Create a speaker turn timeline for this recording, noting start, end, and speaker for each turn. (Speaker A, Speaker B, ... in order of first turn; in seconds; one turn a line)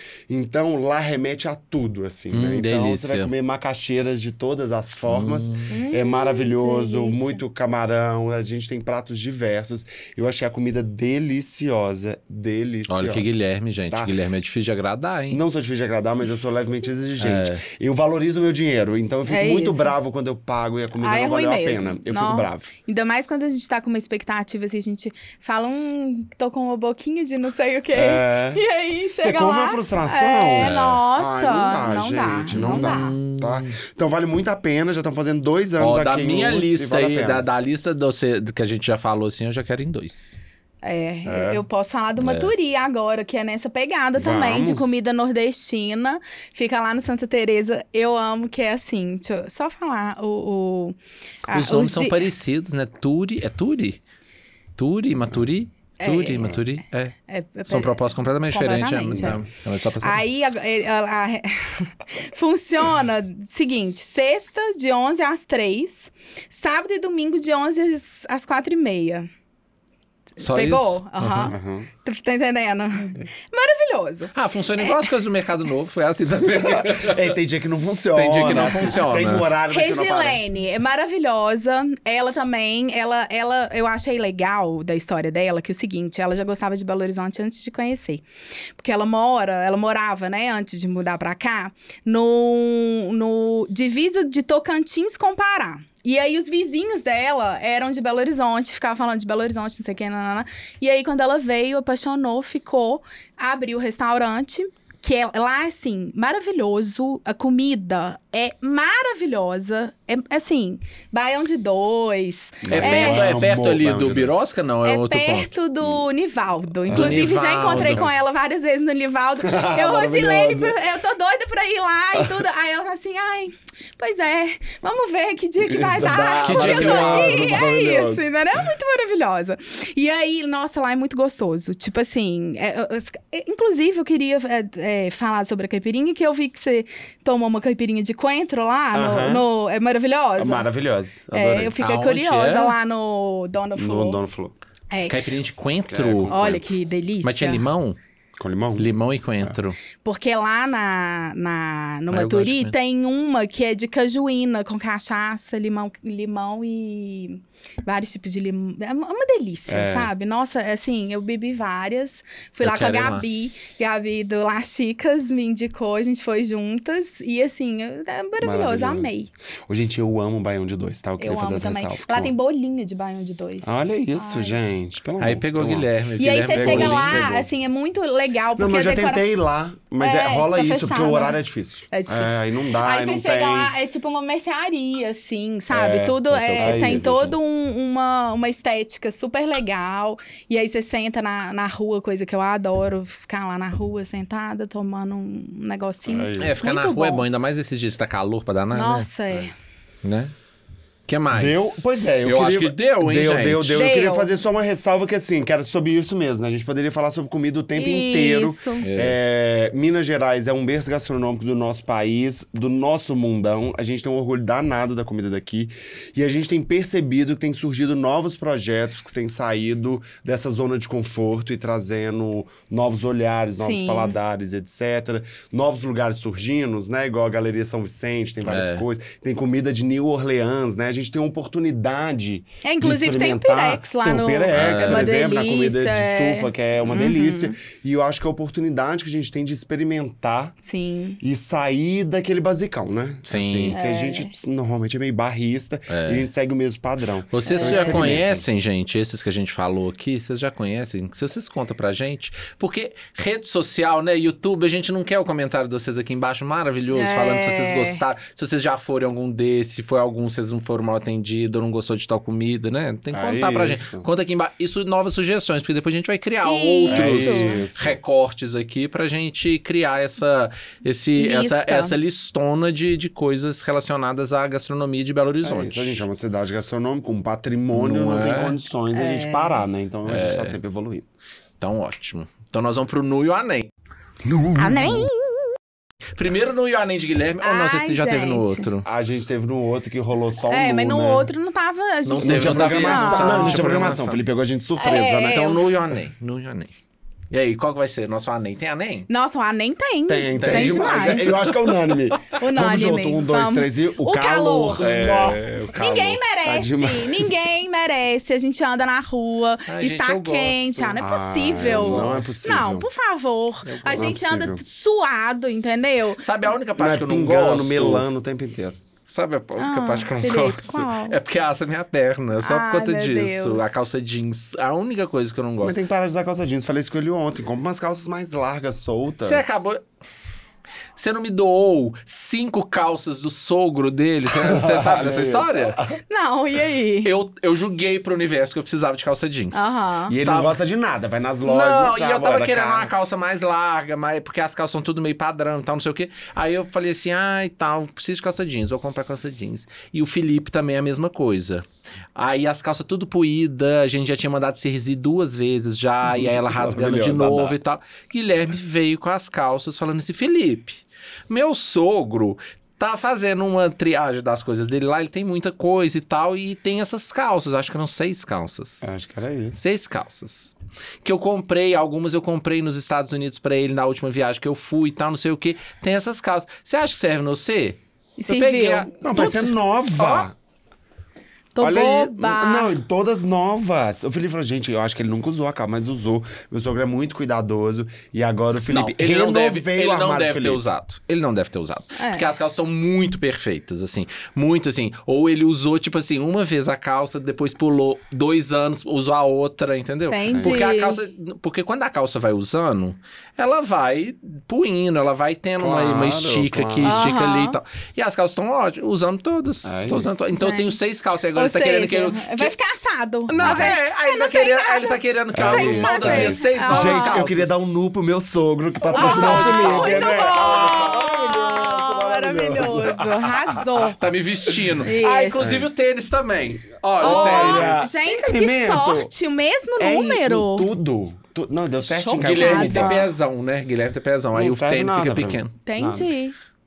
Speaker A: 0.3-13.3
Speaker B: 2.3-3.3
Speaker B: 5.1-5.8
Speaker C: 5.7-7.4
Speaker B: 12.9-15.4
Speaker A: 13.9-14.1
Speaker A: 15.3-22.7
Speaker B: 17.2-17.6
Speaker C: 19.3-19.9
Speaker C: 21.0-33.1
Speaker A: 27.9-28.6
Speaker A: 29.2-37.5
Speaker B: 30.6-31.0
Speaker B: 32.5-33.8
Speaker B: 35.8-40.4
Speaker C: 40.8-51.0
Speaker A: 41.2-41.6
Speaker B: 42.2-42.5
Speaker A: 44.2-45.0
Speaker C: 51.5-52.2
Speaker B: 51.5-54.0
Speaker B: 54.8-57.1
Speaker C: 56.0-56.6
Speaker C: 57.3-59.4
Speaker B: 57.7-60.2
Speaker A: 59.1-59.5
Speaker C: 60.0-69.3
Speaker C: 70.4-75.1
Speaker B: 70.4-71.5
Speaker A: 71.5-71.9
Speaker B: 74.3-77.3
Speaker A: 76.4-80.4
Speaker B: 78.1-79.5
Speaker C: 78.5-79.0
Speaker C: 79.7-88.2
Speaker C: 88.8-113.3
Speaker A: 112.6-114.5
Speaker B: 112.7-115.5
Speaker C: 114.8-140.7
Speaker A: 116.9-118.1
Speaker B: 116.9-118.1
Speaker A: 119.4-120.8
Speaker A: 122.2-122.5
Speaker A: 125.6-128.3
Speaker B: 126.4-127.5
Speaker A: 138.9-139.4
Speaker A: 140.4-141.8
Speaker C: 141.3-144.2
Speaker B: 141.8-142.8
Speaker A: 143.8-144.6
Speaker C: 144.9-145.2
Speaker B: 145.1-146.4
Speaker A: 145.9-146.6
Speaker C: 146.3-147.6
Speaker B: 147.2-148.0
Speaker A: 148.4-149.6
Speaker B: 148.8-149.8
Speaker C: 150.0-169.3
Speaker B: 152.1-152.8
Speaker A: 159.7-160.1
Speaker B: 162.6-163.3
Speaker A: 168.4-172.3
Speaker C: 171.2-174.6
Speaker A: 173.6-175.9
Speaker B: 175.2-177.3
Speaker C: 176.2-179.2
Speaker A: 176.5-177.5
Speaker A: 178.6-183.7
Speaker C: 180.0-181.4
Speaker C: 181.9-197.2
Speaker A: 185.7-187.4
Speaker B: 186.3-187.3
Speaker A: 196.1-196.6
Speaker B: 196.4-199.4
Speaker C: 198.7-199.5
Speaker B: 200.0-200.3
Speaker B: 201.1-203.9
Speaker A: 201.3-240.6
Speaker C: 203.8-204.3
Speaker C: 207.8-208.9
Speaker B: 208.8-209.2
Speaker C: 223.6-224.1
Speaker B: 228.4-228.8
Speaker C: 232.6-237.5
Speaker B: 234.5-235.1
Speaker C: 240.6-241.2
Speaker A: 241.2-248.4
Speaker B: 243.2-243.8
Speaker C: 243.7-244.3
Speaker B: 245.9-246.3
Speaker B: 247.3-276.1
Speaker C: 247.4-248.2
Speaker C: 256.9-258.0
Speaker A: 263.1-264.1
Speaker C: 266.4-267.6
Speaker A: 266.9-268.0
Speaker C: 271.2-271.9
Speaker A: 275.4-281.1
Speaker B: 277.7-278.6
Speaker C: 278.9-279.6
Speaker B: 280.1-280.6
Speaker B: 281.6-283.7
Speaker A: 284.2-285.1
Speaker C: 284.6-285.4
Speaker B: 286.2-288.9
Speaker C: 287.4-288.7
Speaker A: 288.9-291.3
Speaker C: 290.4-293.7
Speaker B: 292.1-294.2
Speaker A: 292.2-295.6
Speaker C: 294.8-295.6
Speaker B: 295.2-296.7
Speaker B: 297.3-299.1
Speaker C: 299.1-301.4
Speaker A: 300.1-307.3
Speaker B: 300.4-301.4
Speaker C: 302.4-316.2
Speaker B: 304.8-305.8
Speaker B: 309.7-311.0
Speaker A: 310.9-312.9
Speaker B: 311.6-312.3
Speaker B: 313.6-314.1
Speaker A: 313.9-314.6
Speaker B: 316.2-318.1
Speaker A: 316.8-318.8
Speaker B: 319.1-325.8
Speaker C: 319.6-321.2
Speaker C: 322.4-323.8
Speaker A: 325.6-329.6
Speaker B: 329.2-329.8
Speaker B: 330.9-335.9
Speaker A: 334.3-336.0
Speaker C: 336.1-337.1
Speaker B: 337.0-340.6
Speaker C: 339.5-340.2
Speaker A: 340.1-342.9
Speaker B: 341.4-368.9
Speaker A: 356.0-357.6
Speaker A: 368.8-369.6
Speaker B: 369.6-379.4
Speaker C: 378.2-379.5
Speaker A: 379.0-380.4
Speaker B: 379.9-380.3
Speaker C: 381.6-382.7
Speaker A: 381.6-390.6
Speaker B: 388.7-412.5
Speaker C: 392.0-392.3
Speaker C: 400.1-401.0
Speaker A: 400.3-400.7
Speaker A: 405.6-407.1
Speaker C: 406.8-407.6
Speaker A: 409.6-410.1
Speaker C: 410.1-410.8
Speaker C: 411.3-417.2
Speaker B: 413.3-417.8
Speaker A: 413.4-413.8
Speaker A: 415.3-423.9
Speaker C: 418.9-424.0
Speaker B: 418.9-420.5
Speaker B: 423.9-427.9
Speaker C: 424.8-425.5
Speaker A: 425.4-425.7
Speaker A: 427.0-429.1
Speaker C: 427.0-430.7
Speaker A: 429.8-433.1
Speaker B: 431.9-435.5
Speaker C: 432.1-433.1
Speaker A: 434.3-436.1
Speaker C: 435.7-436.4